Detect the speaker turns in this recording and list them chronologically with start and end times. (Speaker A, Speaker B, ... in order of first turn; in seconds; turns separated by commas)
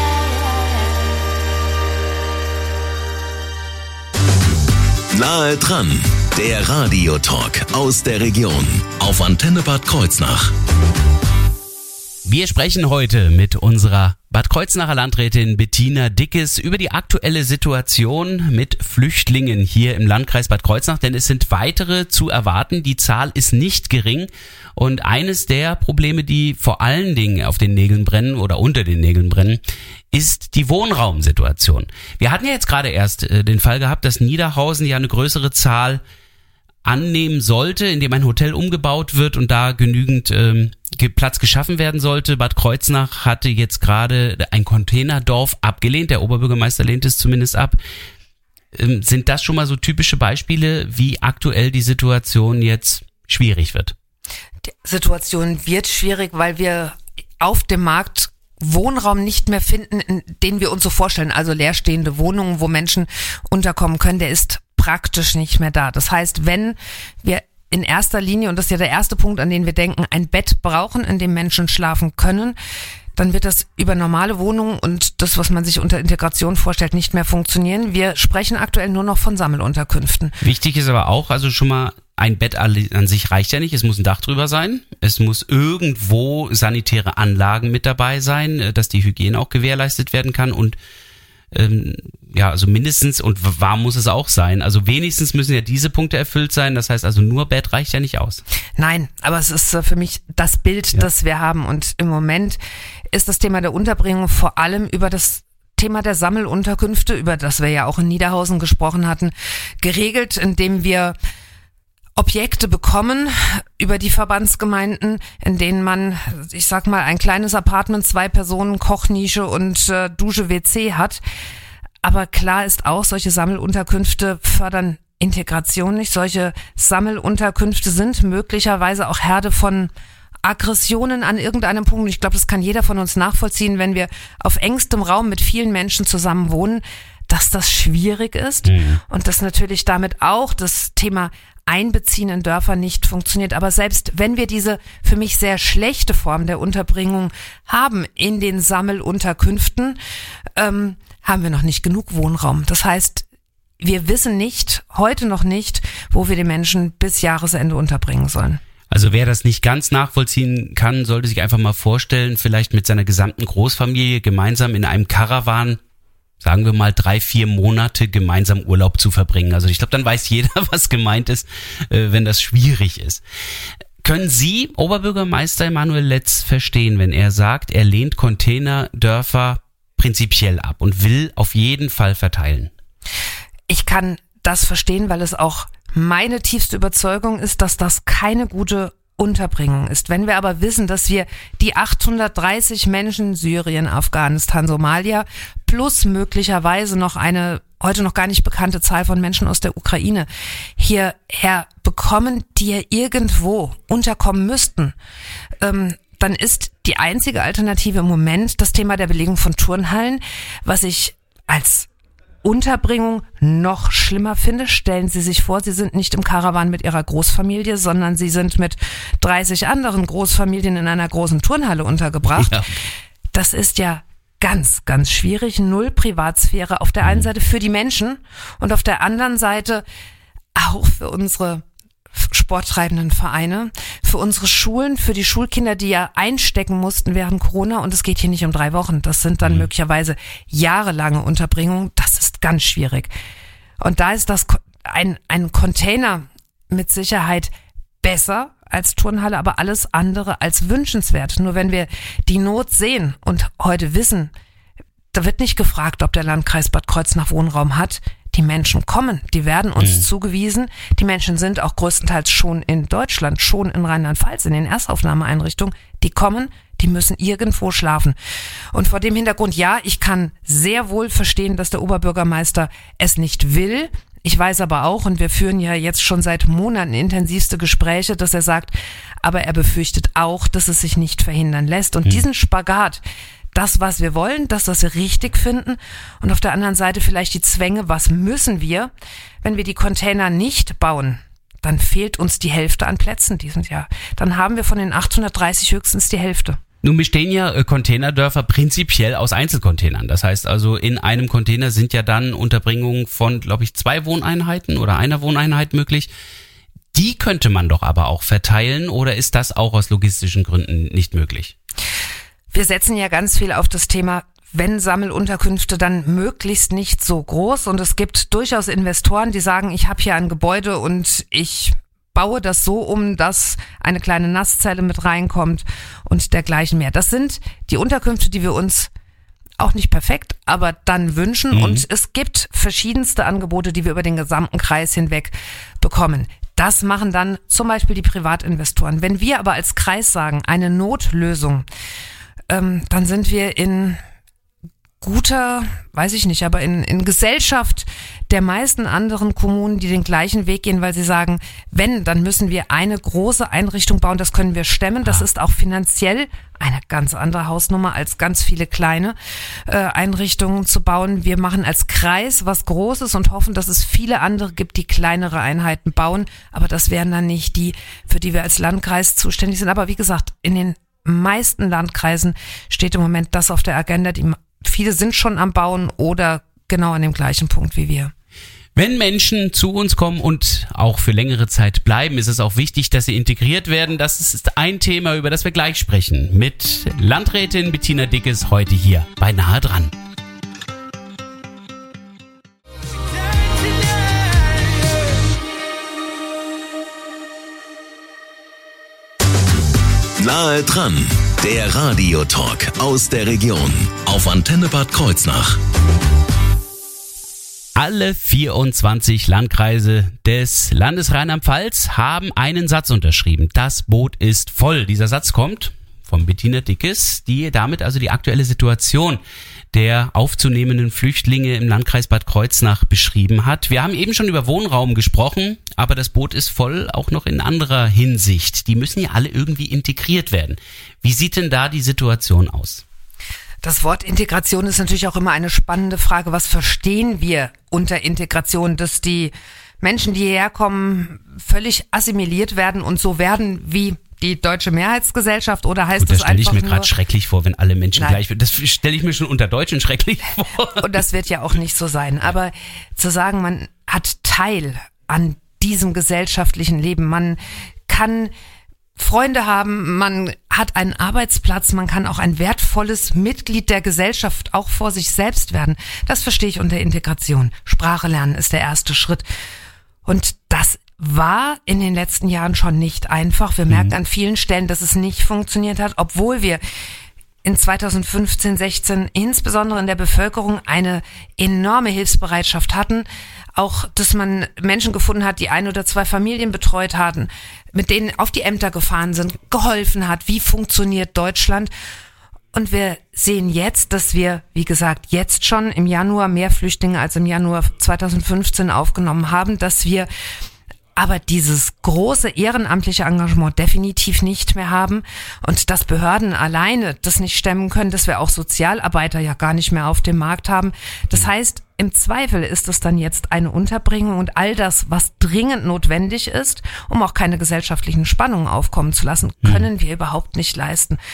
Speaker A: 5.1-10.5, Speaker B: 12.2-29.6, Speaker B: 30.1-36.0, Speaker B: 36.8-47.8, Speaker B: 48.7-53.9, Speaker C: 54.8-72.5, Speaker C: 73.2-80.4, Speaker B: 80.4-90.8, Speaker B: 91.5-98.4, Speaker C: 98.8-102.6, Speaker C: 103.1-111.2, Speaker C: 112.2-121.2, Speaker C: 122.0-129.9, Speaker C: 130.4-150.0, Speaker B: 138.7-139.0, Speaker C: 150.6-153.2, Speaker C: 153.8-158.6, Speaker B: 158.9-165.8, Speaker B: 166.4-173.2, Speaker B: 174.0-182.7, Speaker C: 183.7-204.9, Speaker C: 205.6-211.9, Speaker C: 212.4-222.6, Speaker B: 222.4-222.7, Speaker C: 223.3-229.8, Speaker B: 227.0-227.3, Speaker C: 230.5-243.1, Speaker C: 243.8-247.5, Speaker C: 248.0-254.3, Speaker C: 255.1-268.1, Speaker B: 259.8-260.0, Speaker C: 268.7-283.0, Speaker C: 283.5-288.9, Speaker C: 289.4-296.6, Speaker B: 296.8-306.1, Speaker B: 306.9-311.5, Speaker C: 312.5-328.9, Speaker C: 329.6-341.6, Speaker B: 331.5-331.8, Speaker C: 342.5-344.0, Speaker C: 345.0-378.1, Speaker B: 378.8-389.9, Speaker A: 400.2-405.6, Speaker B: 407.8-419.2, Speaker B: 419.7-432.8, Speaker C: 433.6-446.9, Speaker B: 446.0-450.8, Speaker C: 450.7-458.3, Speaker C: 459.0-469.2, Speaker C: 470.1-476.6, Speaker B: 473.7-473.9, Speaker C: 477.4-491.7, Speaker C: 492.5-500.1, Speaker C: 500.9-521.0